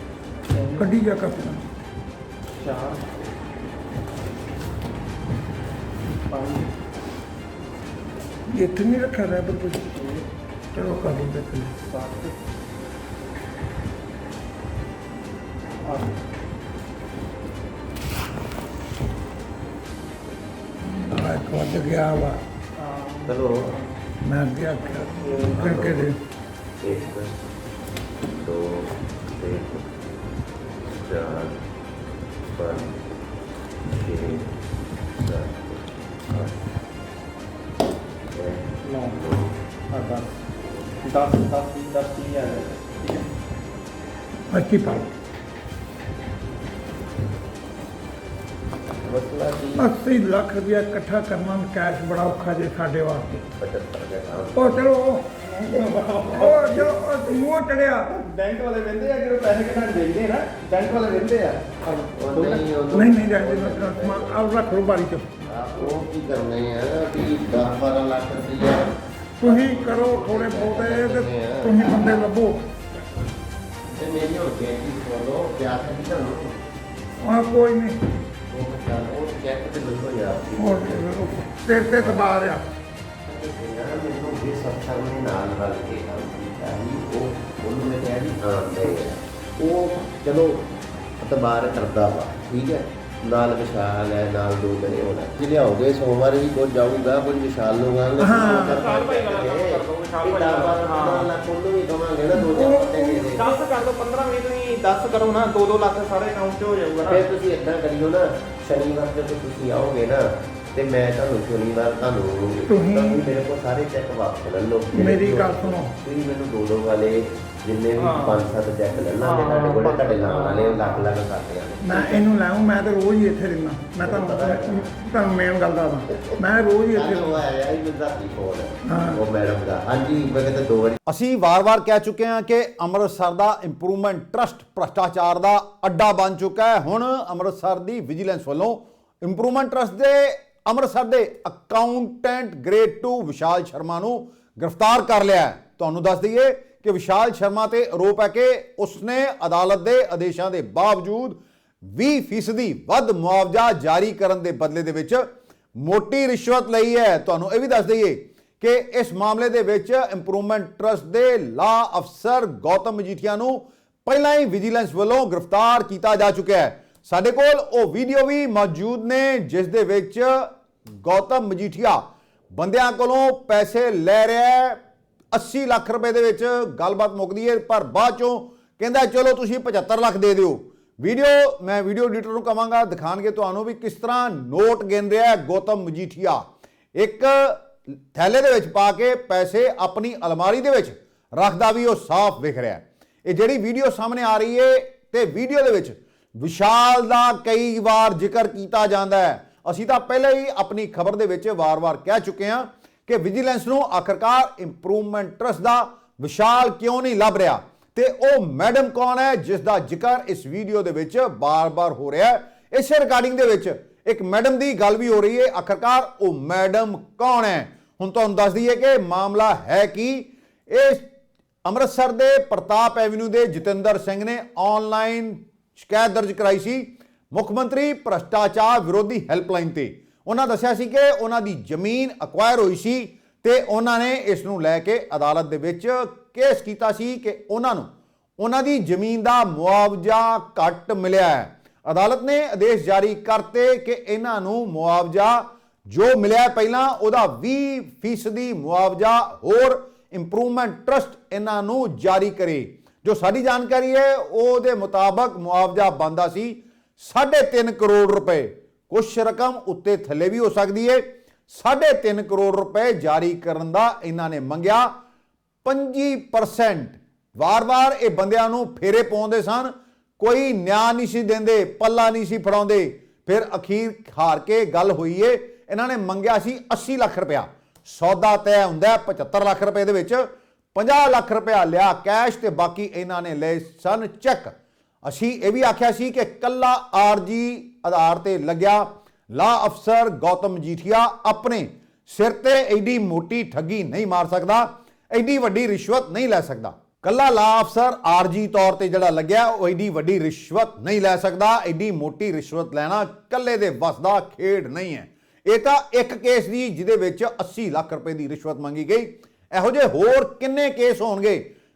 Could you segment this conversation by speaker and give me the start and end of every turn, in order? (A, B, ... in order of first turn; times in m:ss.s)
0:00.5-0:01.0 A
0:00.8-0:01.7 B
0:02.6-0:03.1 A
0:06.3-0:06.7 A
0:08.5-0:09.9 B
0:09.8-0:10.3 A
0:10.8-0:11.8 B
0:11.8-0:12.4 A
0:20.9-0:22.4 B
0:22.8-0:23.9 A
0:23.3-0:23.6 C
0:24.2-0:26.2 B
0:24.7-0:25.6 A
0:25.5-0:26.1 C
0:26.8-0:27.4 C
0:28.2-0:30.0 C
0:31.0-0:31.6 C
0:32.6-0:33.0 C
0:33.9-0:34.5 C
0:35.1-0:36.6 C
0:38.3-0:39.5 C
0:38.9-0:39.2 A
0:39.9-0:40.4 A
0:41.0-0:43.2 A
0:44.5-0:45.1 B
0:49.0-0:49.9 C
0:49.8-0:53.4 B
0:53.5-0:54.9 C
0:54.5-0:58.2 B
0:55.8-0:57.0 A
0:58.2-1:02.8 A
1:02.1-1:04.6 C
1:02.9-1:05.5 B
1:05.4-1:11.9 C
1:05.7-1:06.0 A
1:09.4-1:12.7 B
1:13.9-1:16.6 C
1:17.2-1:18.0 B
1:18.5-1:21.1 C
1:20.6-1:22.7 B
1:21.9-1:22.3 C
1:23.3-1:30.6 C
1:31.2-1:43.5 C
1:38.2-1:38.9 B
1:38.7-1:41.3 A
1:42.3-1:43.5 B
1:43.4-1:47.3 A
1:47.0-2:02.2 C
1:52.7-1:53.3 B
1:54.9-1:56.0 B
1:58.0-1:58.4 A
1:59.1-2:01.0 A
2:01.8-2:07.4 B
2:04.0-2:05.0 C
2:06.1-2:06.4 C
2:06.9-2:11.0 C
2:08.8-2:09.2 B
2:11.1-2:35.3 D
2:35.8-2:54.8 D
2:55.3-3:06.4 D
3:07.0-3:41.1 D
3:41.6-4:24.9 D
4:25.6-4:44.5 D
4:45.0-5:11.5 D